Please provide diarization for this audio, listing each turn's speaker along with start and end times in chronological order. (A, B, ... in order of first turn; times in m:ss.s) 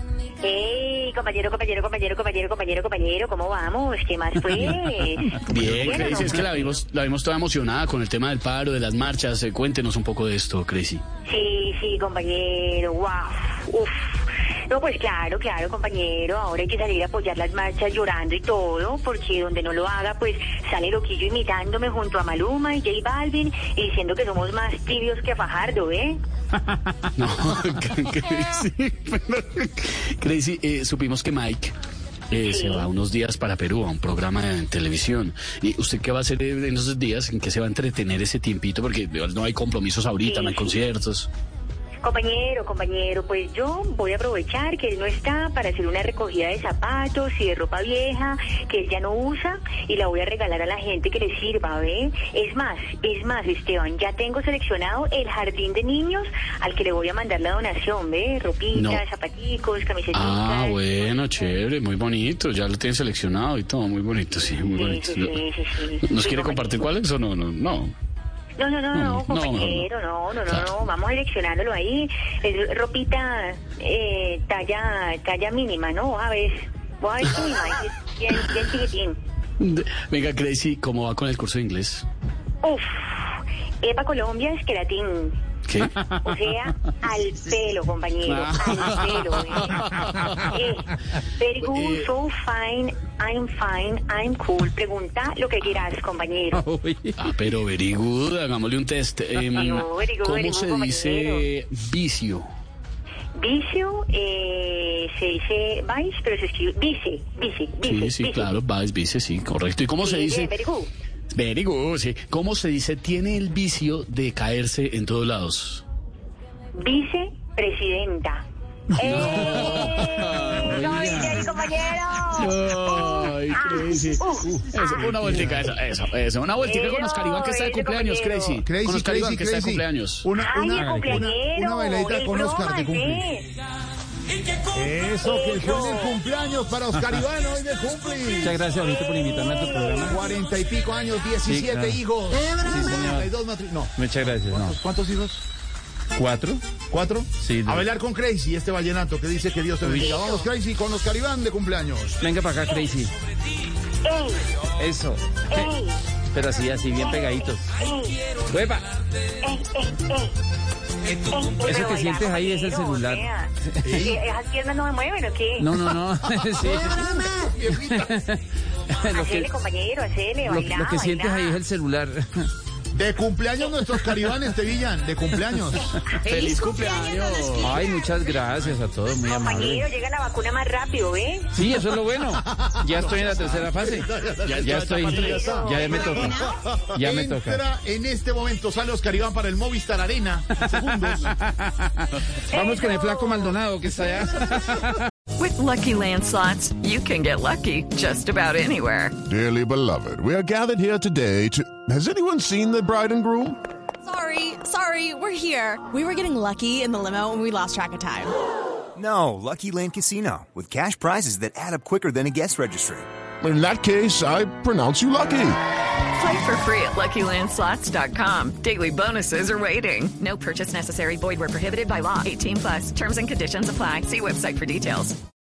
0:00.4-0:06.7 A
0:04.5-0:04.8 B
0:05.4-0:11.0 B
0:11.3-0:14.2 A
0:14.7-0:26.2 A
0:27.2-0:31.8 B
0:32.3-0:41.3 B
0:32.4-0:32.9 A
0:40.2-0:40.8 A
0:42.0-1:01.6 A
0:58.7-0:59.0 B
1:00.1-1:05.4 B
1:04.8-1:06.8 A
1:06.0-1:07.9 B
1:08.6-1:19.2 A
1:08.9-1:09.9 B
1:10.5-1:10.7 B
1:19.6-1:22.1 B
1:22.6-1:23.2 A
1:23.8-1:25.4 A
1:25.7-1:26.0 B
1:26.2-1:36.6 A
1:28.3-1:29.2 B
1:28.5-1:28.9 C
1:31.6-1:32.1 B
1:36.6-1:37.2 C
1:37.2-1:42.5 B
1:39.5-1:41.5 A
1:43.4-1:48.5 A
1:47.8-1:50.6 B
1:50.0-1:50.9 A
1:51.3-1:55.8 B
1:56.8-1:58.4 A
1:59.0-2:04.6 A
1:59.0-2:01.5 B
2:00.6-2:01.3 C
2:02.3-2:10.3 B
2:05.0-2:05.5 D
2:06.6-2:08.6 A
2:08.6-2:13.2 D
2:10.4-2:13.5 A
2:10.7-2:11.3 C
2:14.7-2:18.6 D
2:15.2-2:16.2 A
2:18.4-2:20.2 C
2:19.3-2:20.2 A
2:20.1-2:24.0 D
2:21.5-2:22.0 C
2:22.5-2:23.3 C
2:24.0-2:24.8 C
2:24.5-2:25.4 D
2:26.2-2:26.6 C
2:26.9-2:32.2 D
2:27.4-2:27.8 C
2:29.8-2:30.4 C
2:30.0-2:30.4 A
2:32.2-2:33.1 C
2:32.7-2:33.0 A
2:34.0-2:34.6 A
2:34.8-2:35.7 C
2:35.5-2:36.1 A
2:36.3-2:37.7 C
2:36.8-2:38.2 A
2:38.5-2:38.8 C
2:39.4-2:40.3 A
2:41.3-2:45.8 A
2:41.6-2:44.0 C
2:43.8-2:44.1 D
2:45.6-2:48.4 C
2:47.5-2:48.0 D
2:48.9-2:49.5 C
2:49.1-2:51.6 A
2:50.4-2:52.5 C
2:52.9-2:55.8 D
2:56.0-2:58.6 A
2:56.1-2:57.9 B
2:57.6-2:59.9 C
2:59.2-3:01.6 A
3:01.5-3:06.4 C
3:02.3-3:05.6 D
3:04.4-3:05.6 B
3:05.1-3:06.6 A
3:06.3-3:11.4 D
3:07.0-3:07.6 C
3:10.5-3:15.0 C
3:12.5-3:13.6 A
3:15.4-3:19.2 E
3:19.2-3:23.6 F
3:24.0-3:28.3 G
3:29.0-3:33.1 H
3:33.4-3:35.6 F
3:36.2-3:45.2 E